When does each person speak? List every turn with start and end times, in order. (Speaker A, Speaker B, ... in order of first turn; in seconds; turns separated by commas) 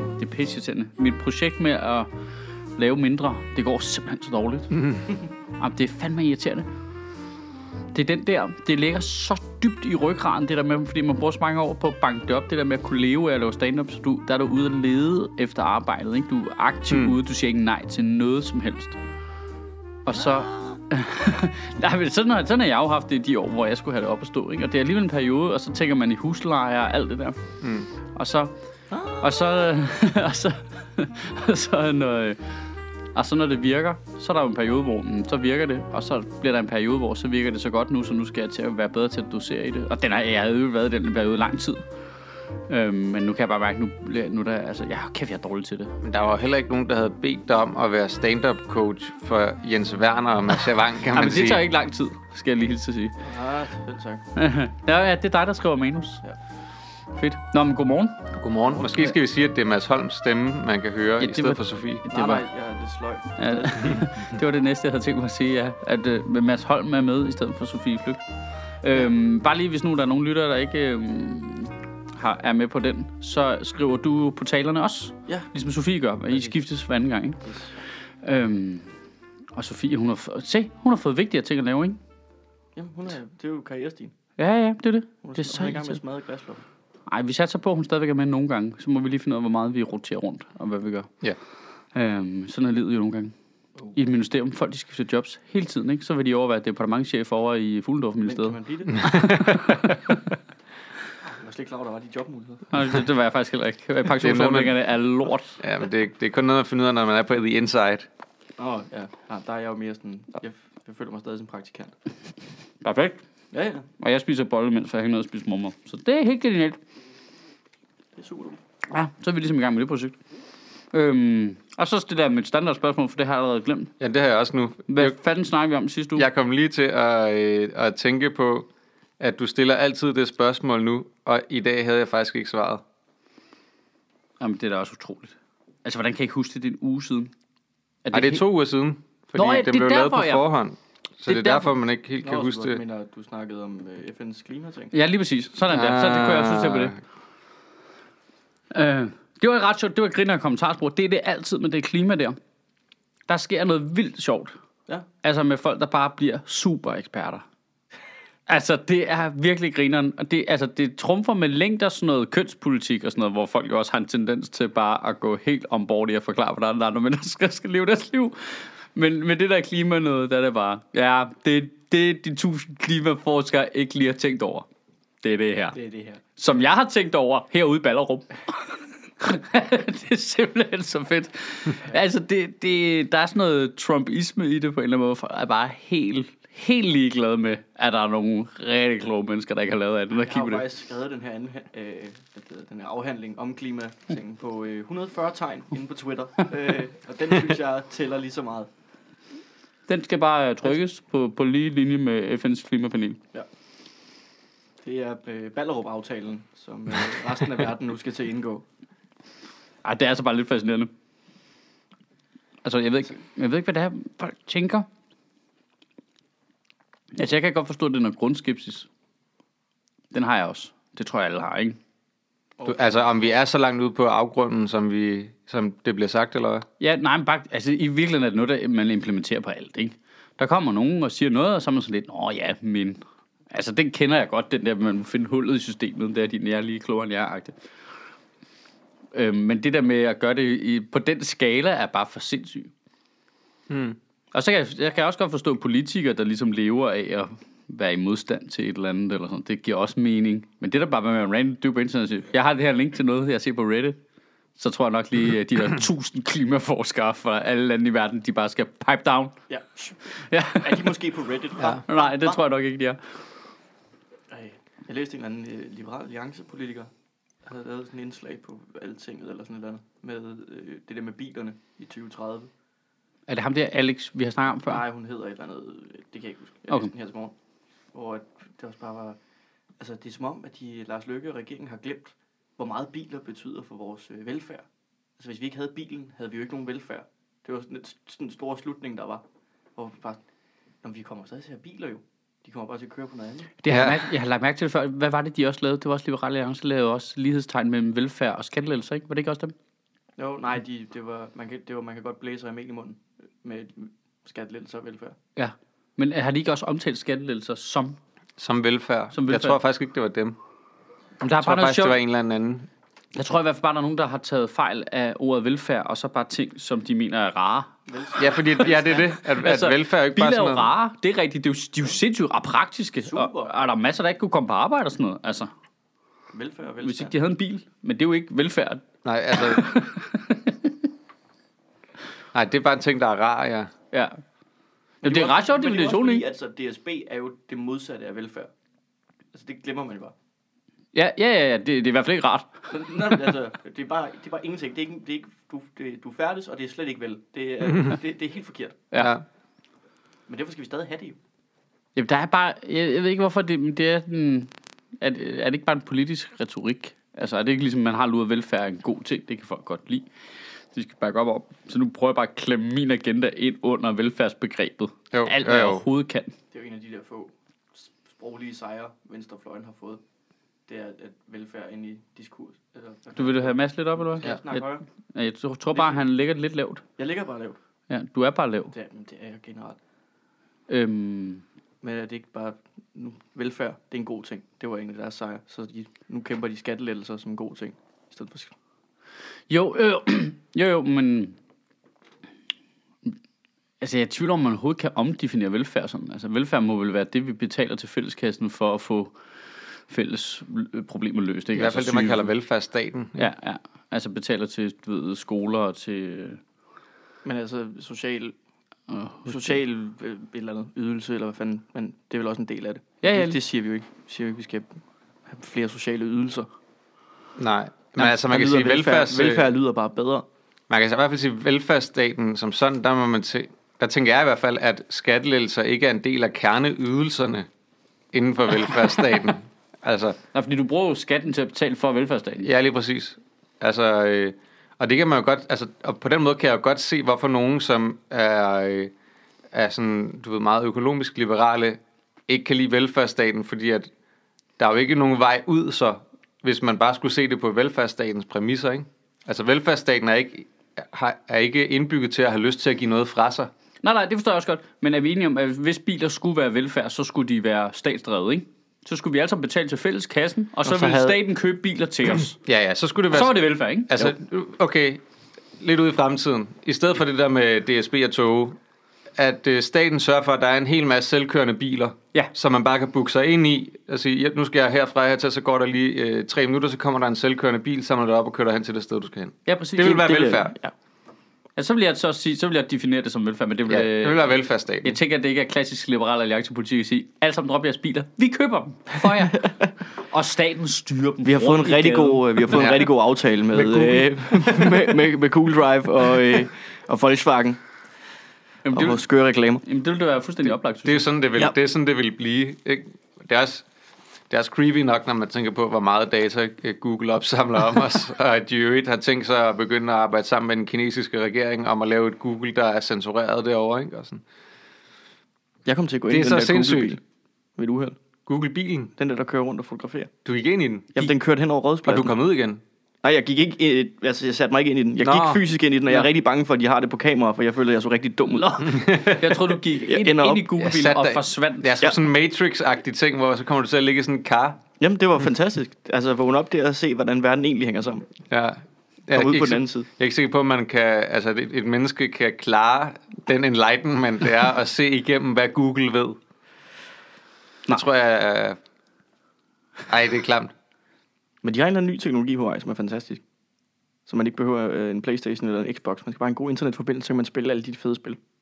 Speaker A: 0.2-2.1, Speaker A: 2.8-4.8, Speaker B: 4.7-5.1, Speaker A: 5.6-6.7, Speaker A: 7.9-19.0, Speaker B: 16.9-17.2, Speaker A: 20.1-27.4, Speaker B: 27.6-27.9, Speaker A: 28.2-28.5, Speaker C: 28.9-29.3, Speaker A: 29.1-32.4, Speaker A: 33.1-41.8, Speaker A: 42.7-46.0, Speaker B: 46.0-51.6, Speaker A: 51.1-53.2, Speaker C: 53.2-54.2, Speaker A: 54.4-56.2, Speaker A: 57.1-58.3, Speaker B: 58.3-62.0, Speaker A: 58.8-59.1, Speaker A: 61.2-62.4, Speaker C: 62.1-64.1, Speaker A: 63.4-68.2, Speaker A: 68.8-77.5, Speaker C: 77.5-77.7, Speaker A: 78.2-78.9, Speaker A: 79.5-82.0, Speaker C: 82.8-84.1, Speaker A: 84.4-86.0, Speaker C: 85.2-86.6, Speaker A: 87.1-91.1, Speaker A: 91.9-93.3, Speaker A: 93.9-100.2, Speaker C: 98.2-99.2, Speaker B: 99.0-100.2, Speaker C: 101.2-102.7, Speaker A: 102.7-105.6, Speaker B: 104.2-104.8, Speaker B: 105.6-108.1, Speaker C: 108.6-112.0, Speaker A: 112.8-113.2, Speaker C: 113.5-113.9, Speaker A: 114.0-116.8, Speaker C: 118.2-118.6, Speaker A: 118.9-120.2, Speaker A: 120.9-123.9, Speaker B: 124.0-125.2, Speaker A: 124.9-126.3, Speaker B: 126.2-128.7, Speaker B: 129.2-132.8, Speaker A: 134.4-137.3, Speaker A: 138.1-138.4, Speaker B: 138.1-142.8, Speaker A: 139.3-140.4, Speaker A: 141.3-141.7, Speaker C: 142.2-144.9, Speaker A: 144.9-146.9, Speaker B: 145.7-146.9, Speaker A: 148.7-152.4, Speaker A: 153.3-154.6, Speaker A: 155.2-157.4, Speaker A: 158.5-174.7, Speaker A: 175.2-175.8, Speaker C: 175.7-176.2, Speaker A: 176.4-190.6, Speaker C: 190.2-198.7, Speaker A: 199.9-203.2, Speaker C: 204.8-208.7, Speaker A: 209.8-210.9, Speaker A: 212.6-214.9, Speaker A: 217.2-218.9, Speaker A: 220.1-221.8, Speaker C: 222.6-223.3, Speaker B: 222.7-226.7, Speaker A: 226.8-237.5, Speaker A: 239.1-242.7, Speaker B: 243.7-244.0, Speaker A: 244.3-254.0, Speaker A: 254.6-259.4, Speaker C: 259.5-262.4, Speaker A: 260.1-260.9, Speaker A: 261.7-263.0, Speaker C: 264.3-266.9, Speaker C: 267.4-272.5, Speaker A: 273.3-274.8, Speaker C: 274.7-277.3, Speaker C: 277.9-279.2, Speaker C: 279.8-284.6, Speaker C: 285.2-289.2, Speaker C: 289.8-290.2, Speaker C: 290.8-293.5, Speaker A: 293.6-299.5, Speaker B: 293.7-294.1, Speaker C: 300.2-305.2, Speaker A: 305.4-308.0, Speaker B: 308.4-310.4, Speaker A: 309.1-309.6, Speaker A: 311.2-312.0, Speaker B: 311.4-312.7, Speaker A: 313.1-317.7, Speaker C: 317.9-319.1, Speaker B: 318.2-320.7, Speaker A: 319.4-325.5, Speaker C: 323.0-323.5, Speaker C: 326.3-327.1, Speaker A: 326.8-330.7, Speaker B: 329.1-329.7, Speaker B: 332.3-333.7, Speaker A: 333.9-334.2, Speaker A: 335.0-336.2, Speaker C: 335.0-338.5, Speaker C: 339.3-340.1, Speaker A: 340.9-343.2, Speaker C: 342.7-348.9, Speaker B: 349.0-349.2, Speaker C: 350.3-351.2, Speaker A: 352.0-360.1, Speaker A: 360.7-366.3, Speaker B: 365.1-365.8, Speaker C: 366.5-370.0, Speaker C: 370.7-374.8, Speaker A: 373.2-376.8, Speaker C: 375.7-376.0, Speaker C: 377.0-377.6, Speaker A: 377.9-378.7, Speaker C: 378.7-379.8, Speaker A: 380.7-381.4, Speaker C: 381.8-388.5, Speaker A: 389.5-391.4, Speaker A: 393.8-399.1, Speaker A: 399.9-402.3, Speaker B: 401.6-403.3, Speaker A: 403.2-406.4, Speaker C: 407.2-408.4, Speaker A: 408.9-409.6, Speaker C: 409.3-416.5, Speaker A: 413.0-413.4, Speaker B: 417.4-419.5, Speaker C: 418.0-420.2, Speaker B: 420.7-427.5, Speaker B: 428.1-430.2, Speaker A: 430.3-432.5, Speaker B: 432.4-438.9, Speaker B: 439.5-443.9, Speaker B: 444.6-453.5, Speaker A: 453.8-462.4, Speaker B: 460.7-461.1, Speaker B: 462.3-465.0, Speaker A: 463.1-464.1, Speaker B: 465.6-468.6, Speaker B: 469.2-480.6, Speaker A: 479.5-480.3, Speaker C: 479.8-480.7, Speaker A: 481.6-484.3, Speaker B: 483.7-485.0, Speaker A: 484.8-492.6, Speaker C: 491.2-497.6, Speaker B: 492.5-492.9, Speaker B: 493.6-494.9, Speaker A: 498.7-499.0, Speaker C: 498.7-499.6, Speaker A: 499.6-501.1, Speaker B: 500.9-503.6, Speaker B: 504.3-514.2, Speaker C: 515.7-517.0, Speaker B: 516.1-517.0, Speaker C: 517.6-518.0, Speaker B: 518.3-518.9, Speaker C: 519.0-520.1, Speaker B: 520.2-521.0, Speaker C: 521.0-522.1, Speaker B: 521.9-522.6, Speaker C: 523.0-530.5, Speaker B: 525.0-525.4, Speaker B: 528.7-529.2, Speaker A: 529.0-531.8, Speaker B: 530.6-534.6, Speaker C: 534.8-538.1, Speaker B: 538.3-546.2, Speaker C: 539.1-539.9, Speaker B: 547.7-548.6, Speaker B: 549.9-550.5, Speaker C: 551.4-553.2, Speaker C: 554.1-558.2